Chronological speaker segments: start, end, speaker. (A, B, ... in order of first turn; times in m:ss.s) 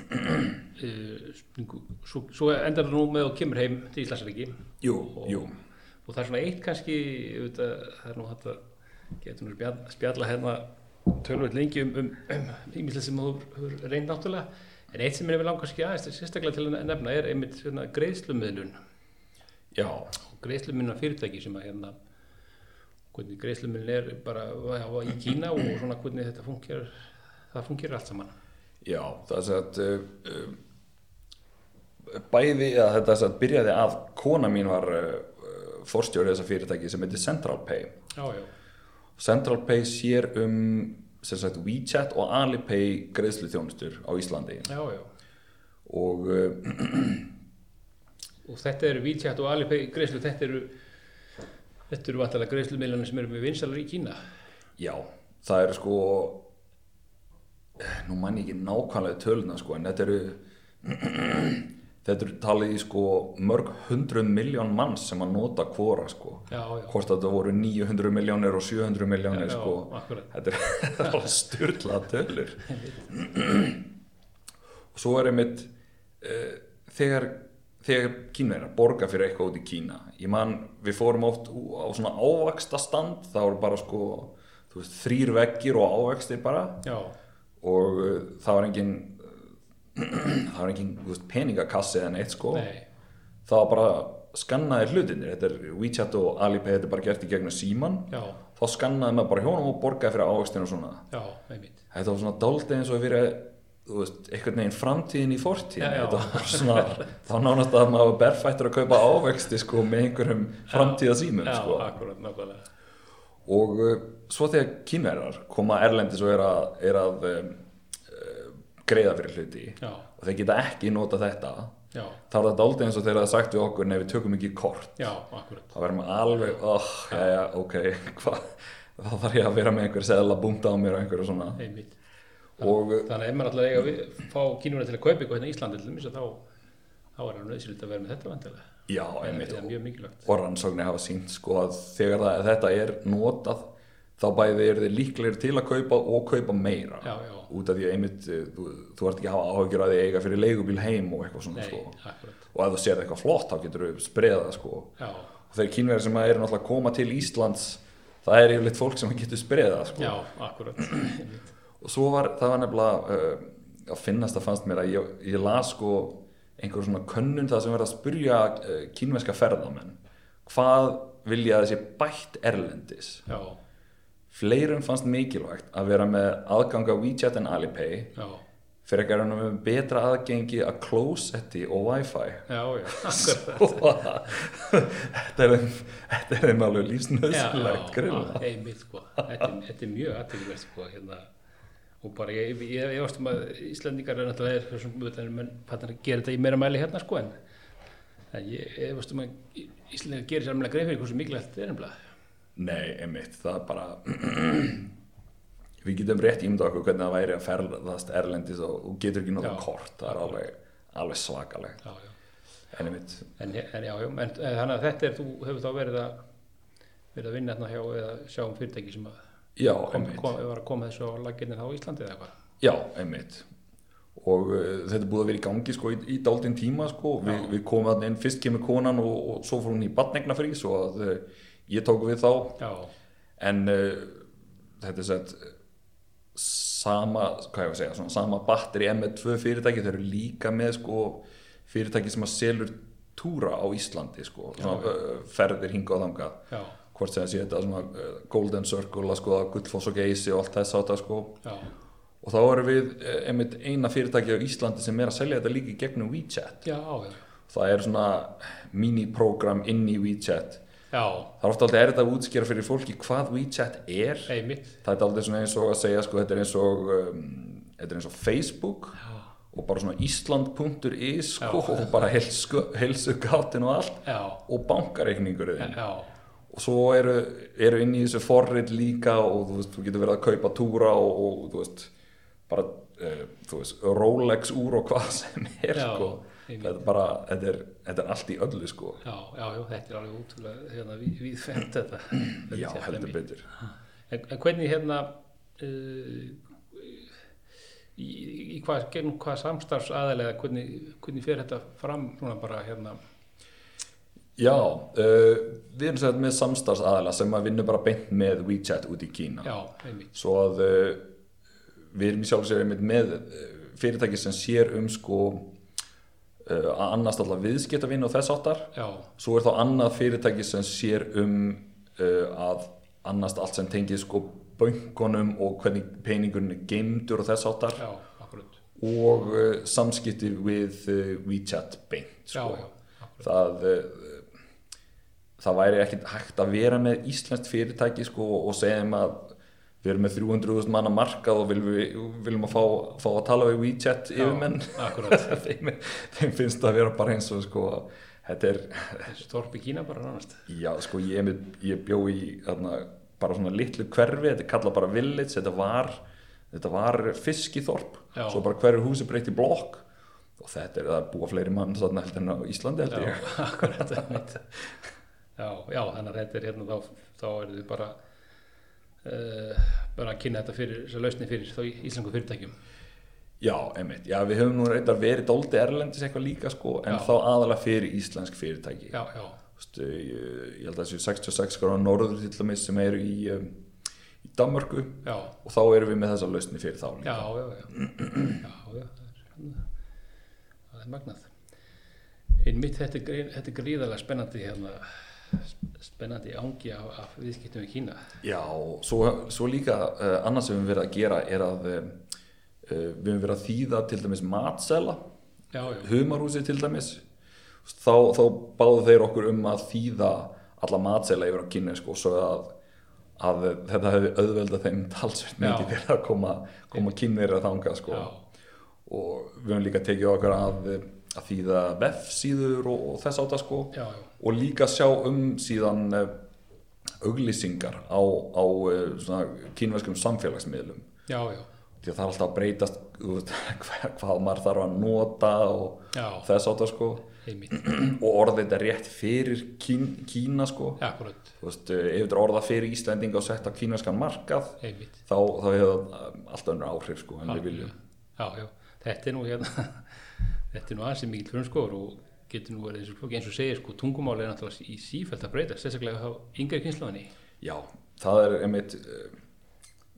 0:00.7-0:04.5 A
0:04.8-0:05.6 B
0:05.1-0:05.5 A
0:06.1-0:08.6 A
0:09.2-0:18.7 A
0:19.7-0:20.1 B
0:20.3-0:22.0 A
0:23.1-0:28.3 A
0:28.8-0:30.6 B
0:32.1-0:37.9 B
0:38.2-0:38.5 A
0:39.2-0:44.7 B
0:44.7-0:45.1 A
0:45.9-0:47.3 B
0:48.4-0:50.7 A
0:51.9-0:54.2 A
0:54.8-0:56.4 B
0:57.8-1:13.8 B
1:06.5-1:06.9 A
1:09.3-1:10.3 A
1:12.7-1:13.1 A
1:14.9-1:15.7 B
1:16.2-1:26.8 B
1:26.8-1:27.1 A
1:27.6-1:32.7 B
1:32.5-1:32.8 A
1:33.5-1:41.0 B
1:38.1-1:38.4 A
1:41.1-1:41.8 A
1:41.9-1:51.9 B
1:45.8-1:47.0 A
1:50.7-1:52.6 A
1:53.5-2:01.8 B
1:59.8-2:00.1 A
2:01.9-2:02.2 A
2:02.3-2:05.1 B
2:05.0-2:05.8 A
2:05.7-2:11.6 B
2:11.6-2:12.0 A
2:12.6-2:13.1 B
2:12.6-2:16.4 A
2:17.2-2:18.6 A
2:18.9-2:19.7 B
2:19.2-2:20.3 A
2:20.2-2:32.0 B
2:27.0-2:27.5 A
2:31.6-2:32.4 A
2:32.5-2:35.0 B
2:35.0-2:35.3 A
2:35.5-2:40.2 B
2:40.0-2:41.5 A
2:41.8-2:53.3 B
2:53.3-2:53.6 A
2:54.3-2:58.2 B
2:58.2-2:58.4 A
2:58.9-3:08.4 B
3:02.5-3:04.0 A
3:07.3-3:11.3 A
3:12.0-3:17.3 A
3:18.3-3:21.9 A
3:22.6-3:24.9 B
3:25.8-3:31.8 B
3:29.4-3:30.4 A
3:31.8-3:32.1 A
3:32.7-3:33.3 B
3:33.4-3:36.2 A
3:37.2-3:39.2 A
3:39.6-3:40.3 B
3:39.9-3:42.3 A
3:42.6-3:43.5 B
3:44.2-3:52.6 B
3:47.3-3:47.5 A
3:52.6-3:52.9 A
3:53.4-3:54.3 B
3:54.8-3:55.5 B
3:56.4-4:06.4 B
4:04.6-4:05.0 A
4:06.5-4:06.8 A
4:06.9-4:11.4 B
4:11.4-4:11.7 A
4:12.2-4:16.6 B
4:16.6-4:17.2 A
4:17.5-4:20.6 B
4:20.9-4:21.3 A
4:21.4-4:29.0 B
4:24.3-4:24.8 A
4:29.5-4:35.8 B
4:31.4-4:31.9 A
4:34.1-4:34.4 A
4:35.6-4:36.1 A
4:36.5-4:41.9 B
4:42.5-4:49.0 B
4:45.7-4:46.8 A
4:49.0-4:53.2 A
4:52.5-4:53.5 B
4:54.1-4:57.1 A
4:58.0-5:03.0 A
5:04.4-5:09.5 B
5:09.4-5:10.1 A
5:10.1-5:11.0 B
5:11.9-5:15.5 B
5:16.4-5:27.8 B
5:18.8-5:19.1 A
5:27.8-5:28.6 A
5:28.8-5:32.7 B
5:32.3-5:33.2 A
5:33.2-5:34.3 B
5:35.4-5:49.2 B
5:44.2-5:45.4 A
5:49.1-5:50.5 A
5:50.5-5:59.8 B
5:58.2-5:58.4 A
6:00.4-6:04.2 B
6:02.9-6:04.4 A
6:05.4-6:08.0 A
6:09.0-6:12.5 A
6:13.4-6:19.0 B
6:18.9-6:19.4 A
6:19.6-6:23.6 B
6:24.2-6:28.4 B
6:25.0-6:25.3 A
6:27.0-6:27.7 A
6:28.4-6:29.6 A
6:30.7-6:31.3 A
6:32.4-6:38.1 A
6:38.2-6:42.0 B
6:42.6-6:45.0 B
6:45.5-6:45.9 A
6:45.7-6:47.0 B
6:47.6-6:52.5 B
6:53.2-6:58.1 B
6:55.4-6:55.8 A
6:57.9-6:58.2 A
6:58.9-7:06.1 B
7:03.7-7:04.1 A
7:07.0-7:10.9 B
7:11.1-7:11.5 A
7:11.8-7:20.8 B
7:15.9-7:16.3 A
7:17.2-7:17.6 A
7:20.8-7:21.3 A
7:21.4-7:27.7 B
7:24.6-7:25.0 A
7:27.3-7:37.1 A
7:37.4-7:39.2 B